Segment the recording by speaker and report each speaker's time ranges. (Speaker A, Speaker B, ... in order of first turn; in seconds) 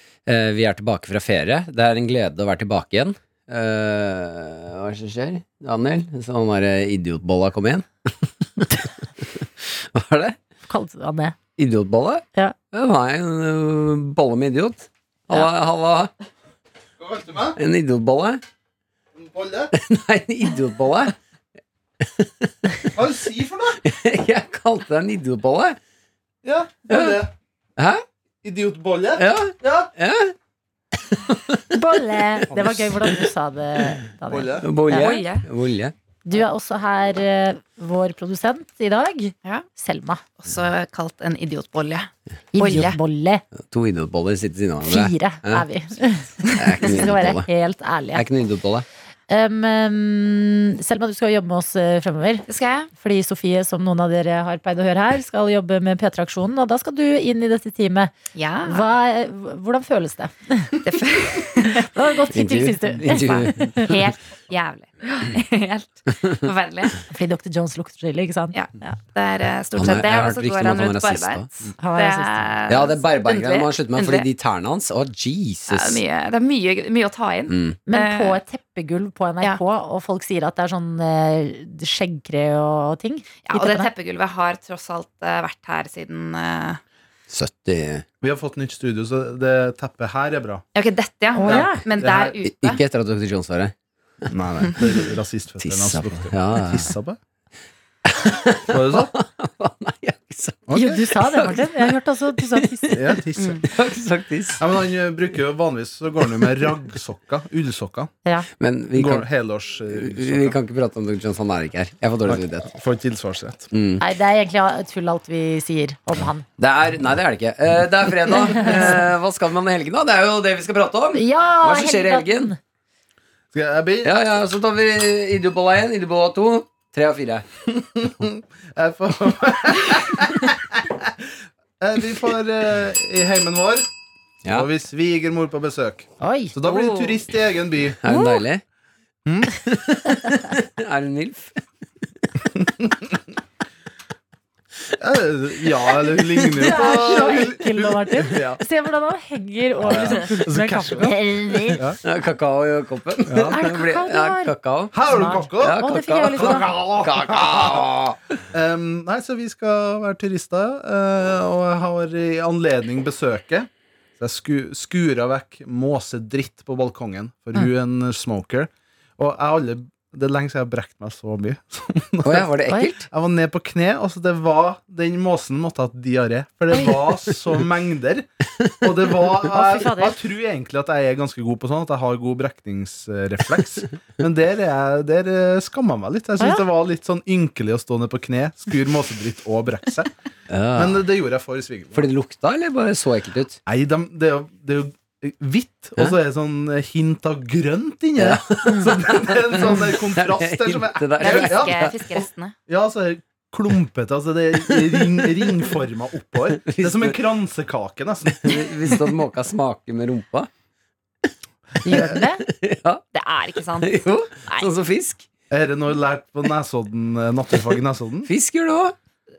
Speaker A: 0.2-10.4, 11.6-16.1, 17.6-18.4, 19.7-21.1, 22.0-22.9, 23.8-25.8, 26.9-27.2, 27.8-28.0, 29.2-30.3, 31.2-31.8, 34.6-35.9, 43.6-45.7, 46.5-47.5, 48.1-48.9, 62.3-64.0, 69.8-71.5, 72.7-76.0, 77.5-77.8, 87.3-88.0, 92.5-93.7, 94.8-95.1, 95.6-96.9, 98.1-103.0, 103.6-104.6, 108.6-109.3, 109.9-112.7, 113.7-114.0, 116.6-122.5, 124.0-127.5, 138.0-138.6, 139.7-141.6, 151.6-158.2, 172.2-173.0, 190.5-191.0, 191.9-193.6, 198.2-201.9, 205.0-205.6, 206.5-207.1, 208.3-210.5, 211.9-213.0, 213.8-215.2, 218.2-218.9
Speaker B: 10.7-11.3, 31.7-35.2, 36.2-40.2, 42.5-43.4, 44.8-48.2, 49.3-58.1, 58.6-60.8, 61.6-63.9, 67.1-68.5, 71.8-72.3, 77.9-83.9, 91.3-91.8, 100.7-103.0, 114.0-116.5, 118.5-119.0, 121.1-122.6, 136.2-136.6, 138.1-138.4, 146.6-151.8, 153.5-154.5, 155.1-156.7, 179.5-180.2, 211.8-212.4
Speaker C: 17.0-17.6, 19.2-19.7, 22.9-23.8, 26.4-27.3, 28.4-29.9, 32.5-32.9, 34.3-34.6, 88.2-90.6, 91.4-92.3, 94.3-97.2, 98.7-99.1, 100.7-101.0, 102.9-103.7, 104.6-108.1, 108.9-110.6, 112.2-113.7, 123.5-124.1, 127.8-133.8, 134.4-138.0, 139.2-139.6, 145.0-148.6, 149.8-151.2, 151.7-152.0, 153.3-153.6, 154.9-157.9, 158.5-172.5, 173.0-178.2, 178.8-190.1, 190.7-192.1, 193.7-208.9, 215.5-218.3
Speaker D: 34.9-35.5, 40.4-43.0, 52.5-52.9, 58.3-58.8, 60.8-61.9, 63.0-67.0, 68.5-74.3, 75.7-78.4, 83.4-86.8, 90.7-92.8, 103.4-103.7, 136.6-137.2, 201.2-202.5, 213.1-214.7